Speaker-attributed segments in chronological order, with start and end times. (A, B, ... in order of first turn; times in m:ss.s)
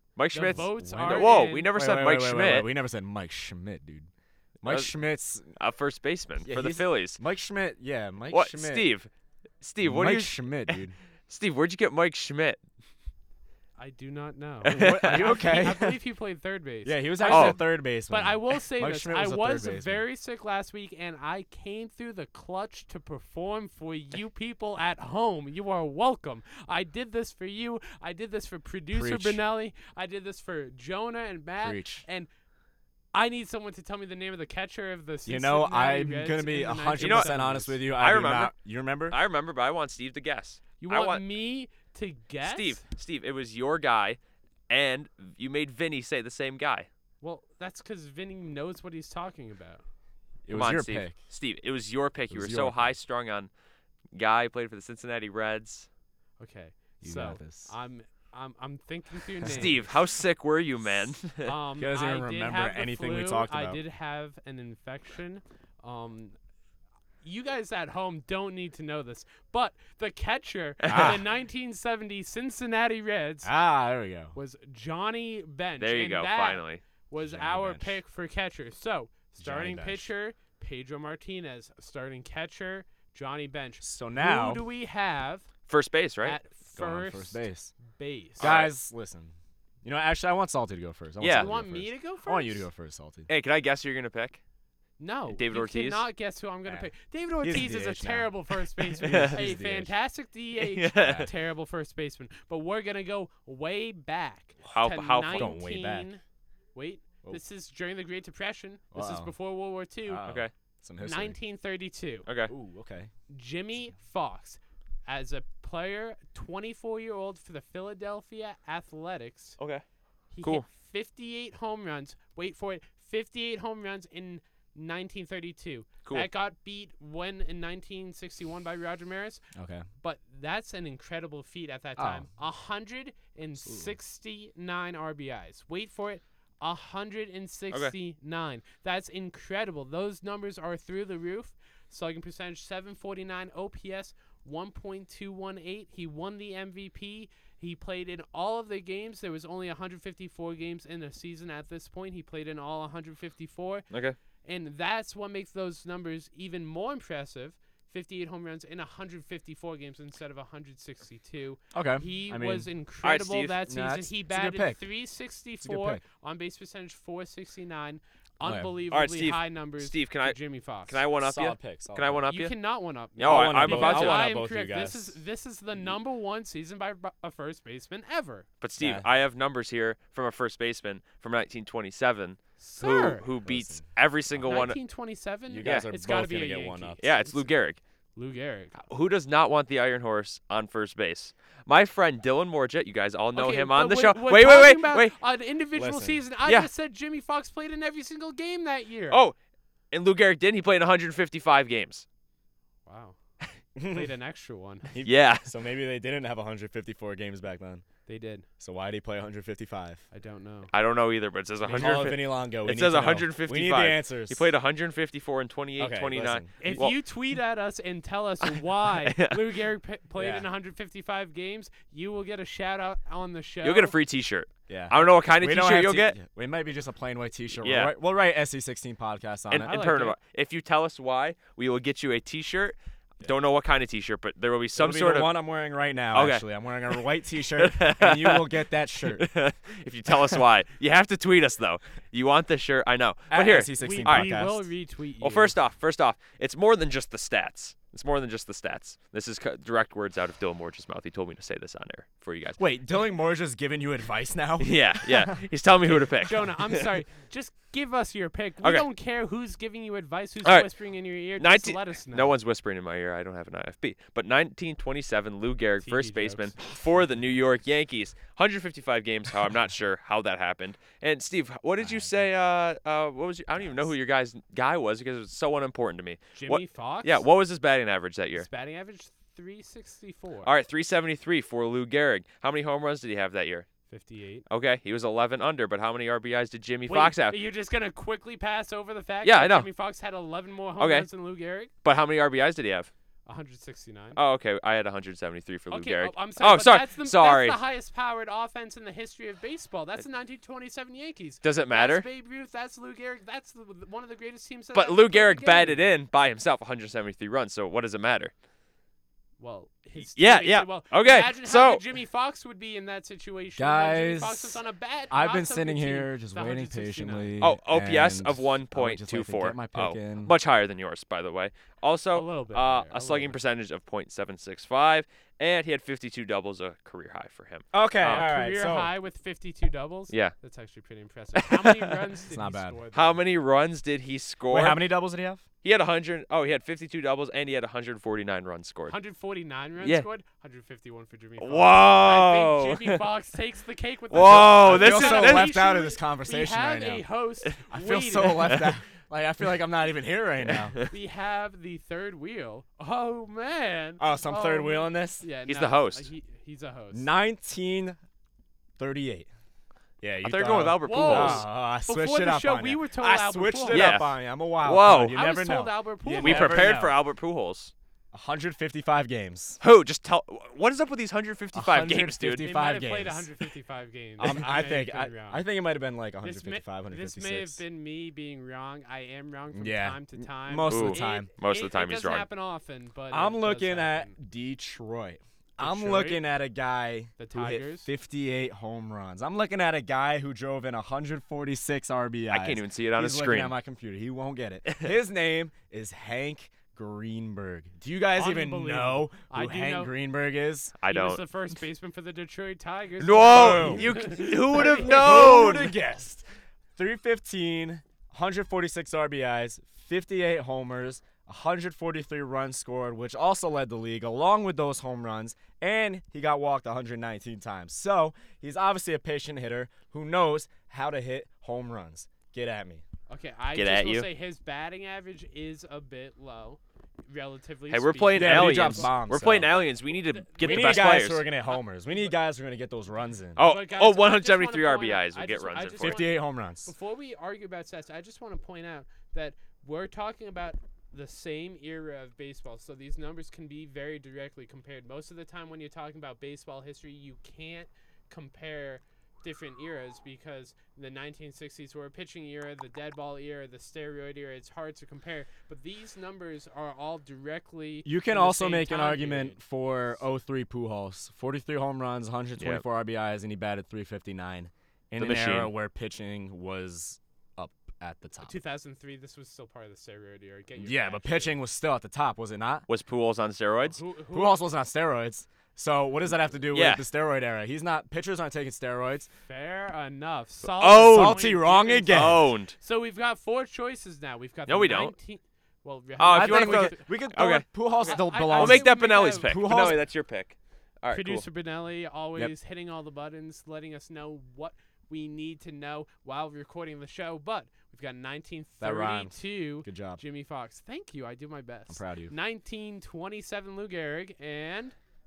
0:00.2-0:02.7 A
0:00.3-0:01.7 B
0:00.4-0:01.2 C
0:01.7-0:04.1 C
0:04.6-0:05.0 A
0:04.6-0:05.6 C
0:05.6-0:07.2 A
0:06.4-0:08.9 C
0:08.3-0:09.1 A
0:09.6-0:12.6 A
0:09.8-0:11.0 C
0:13.8-0:32.3 B
0:14.6-0:15.6 A
0:14.7-0:16.0 C
0:16.8-0:20.0 C
0:17.2-0:17.6 A
0:28.9-0:29.4 C
0:31.6-0:32.1 C
0:33.1-0:37.8 B
0:35.3-0:39.2 C
0:37.0-0:37.3 A
0:37.9-0:41.3 A
0:40.8-0:42.8 B
0:42.4-0:44.2 A
0:44.7-0:46.9 A
0:47.2-0:49.8 B
0:50.5-0:51.2 C
0:50.5-0:53.5 A
0:52.3-0:52.9 C
0:54.1-0:55.9 A
0:56.4-0:59.9 B
0:57.0-0:57.7 C
0:59.4-0:59.7 C
0:59.4-1:01.6 A
1:01.4-1:06.4 B
1:01.8-1:03.8 C
1:07.2-1:13.5 B
1:10.8-1:11.2 C
1:13.4-1:14.4 C
1:14.3-1:25.5 B
1:15.8-1:16.8 A
1:17.2-1:18.0 C
1:19.4-1:20.1 C
1:23.8-1:24.6 C
1:25.7-1:26.4 A
1:26.2-1:28.5 B
1:26.8-1:27.8 C
1:28.4-1:28.7 A
1:28.4-1:33.3 C
1:31.2-1:31.5 A
1:31.3-1:32.7 B
1:33.3-1:34.4 A
1:35.0-1:46.2 B
1:35.3-1:36.0 A
1:37.4-1:39.9 C
1:39.0-1:39.4 A
1:40.6-1:41.3 A
1:41.0-1:41.3 C
1:44.6-1:45.6 A
1:45.3-1:46.1 C
1:46.8-1:50.2 B
1:48.9-1:49.3 C
1:50.0-1:51.4 C
1:50.2-1:50.5 A
1:51.0-1:52.3 B
1:52.3-1:52.5 A
1:52.5-1:53.1 C
1:53.3-1:59.6 B
1:59.6-1:59.8 A
2:00.3-2:09.5 B
2:09.6-2:09.9 C
2:10.0-2:33.9 B
2:12.0-2:12.3 C
2:13.6-2:14.0 C
2:33.9-2:34.2 A
2:34.4-2:51.1 B
2:41.7-2:42.7 C
2:43.0-2:43.6 A
2:43.6-2:44.9 C
2:45.6-2:46.0 C
2:48.4-2:48.7 C
2:48.9-2:52.6 A
2:51.2-2:52.2 C
2:52.3-2:58.5 B
2:53.2-2:54.3 A
2:53.2-2:55.2 C
2:58.6-3:04.8 A
2:58.8-2:59.1 C
3:02.6-3:03.3 B
3:03.4-3:04.6 C
3:04.5-3:07.4 B
3:05.5-3:07.0 C
3:07.0-3:07.8 A
3:08.2-3:08.8 B
3:08.8-3:15.2 A
3:13.3-3:19.2 B
3:15.8-3:16.2 C
3:16.4-3:16.7 A
3:19.1-3:19.4 A
3:19.9-3:22.0 A
3:22.9-3:23.2 B
3:23.8-3:24.1 C
3:23.8-3:24.9 B
3:24.9-3:27.8 C
3:25.0-3:25.5 A
3:28.1-3:28.5 B
3:28.6-3:30.0 C
3:30.1-3:30.7 B
3:30.7-3:37.0 A
3:31.6-3:32.1 B
3:31.7-3:34.5 C
3:35.8-3:36.9 C
3:36.6-3:44.0 B
3:38.4-3:39.5 A
3:40.2-3:40.5 C
3:43.6-3:46.2 A
3:44.7-3:49.8 C
3:47.6-3:48.0 A
3:49.5-3:55.4 A
3:49.5-3:50.2 B
3:54.8-3:59.3 C
3:56.1-4:04.4 A
4:03.3-4:04.6 C
4:03.8-4:05.6 B
4:05.2-4:12.8 A
4:12.6-4:15.4 C
4:14.6-4:16.9 A
4:16.2-4:22.4 B
4:18.6-4:18.9 A
4:20.4-4:20.7 A
4:21.3-4:38.5 A
4:25.8-4:26.6 B
4:31.8-4:32.1 C
4:36.3-4:37.3 B
4:38.4-4:40.5 B
4:40.4-4:43.7 A
4:43.9-4:44.5 B
4:44.5-4:47.4 A
4:46.9-4:51.7 B
4:49.2-4:49.7 A
4:50.8-4:51.1 A
4:51.8-4:52.9 A
4:53.3-4:54.2 B
4:54.2-4:57.6 A
4:55.7-5:05.9 B
5:01.4-5:02.1 A
5:04.7-5:08.3 A
5:09.4-5:17.4 B
5:10.0-5:11.8 A
5:13.6-5:14.6 C
5:15.1-5:20.3 C
5:17.4-5:28.4 A
5:22.1-5:23.4 B
5:27.7-5:28.9 C
5:28.0-5:33.2 B
5:30.1-5:30.4 A
5:31.4-5:31.9 A
5:32.3-5:32.8 C
5:32.9-5:34.9 A
5:34.5-5:35.4 C
5:35.6-5:39.0 A
5:38.9-5:48.6 B
5:39.8-5:40.1 A
5:41.4-5:43.0 A
5:44.1-5:45.5 A
5:44.4-5:47.1 C
5:47.7-5:50.8 C
5:48.4-5:48.8 A
5:50.4-5:50.9 A
5:50.9-5:57.1 B
5:54.0-5:55.3 C
5:55.5-5:56.1 A
5:56.9-5:58.0 C
5:58.8-5:59.3 C
6:00.0-6:07.0 C
6:00.2-6:01.5 A
6:00.8-6:04.0 B
6:03.7-6:05.2 A
6:05.1-6:06.8 B
6:06.2-6:07.7 A
6:08.1-6:09.6 C
6:09.6-6:12.5 A
6:11.5-6:13.4 C
6:12.4-6:15.4 B
6:14.2-6:17.6 C
6:16.2-6:24.2 B
6:19.5-6:21.3 C
6:20.7-6:22.3 A
6:23.1-6:40.8 C
6:25.6-6:26.2 B
6:27.2-6:27.9 B
6:32.3-6:33.6 A
6:38.1-6:39.9 B
6:40.8-6:41.2 A
6:40.9-6:45.6 B
6:43.0-6:45.8 A
6:43.2-6:46.2 C
6:46.8-7:02.8 C
7:03.1-7:09.0 B
7:03.5-7:04.1 A
7:07.7-7:11.3 A
7:08.1-7:09.6 C
7:09.9-7:11.1 B
7:10.4-7:13.4 C
7:11.9-7:12.1 B
7:13.4-7:16.0 A
7:13.4-7:39.4 B
7:15.8-7:16.7 C
7:37.8-7:48.4 C
7:42.4-7:42.6 A
7:45.0-7:45.5 A
7:48.2-7:51.4 B
7:50.6-7:52.7 C
7:52.7-7:53.8 A
7:53.6-7:54.4 B
7:54.1-7:59.1 C
7:56.5-7:56.9 A
7:59.3-8:06.9 B
8:00.4-8:01.3 A
8:00.6-8:02.3 C
8:01.9-8:02.6 A
8:04.5-8:04.9 A
8:06.0-8:11.3 A
8:06.1-8:09.9 C
8:07.8-8:09.8 B
8:10.9-8:24.8 B
8:18.6-8:20.0 C
8:21.7-8:22.1 C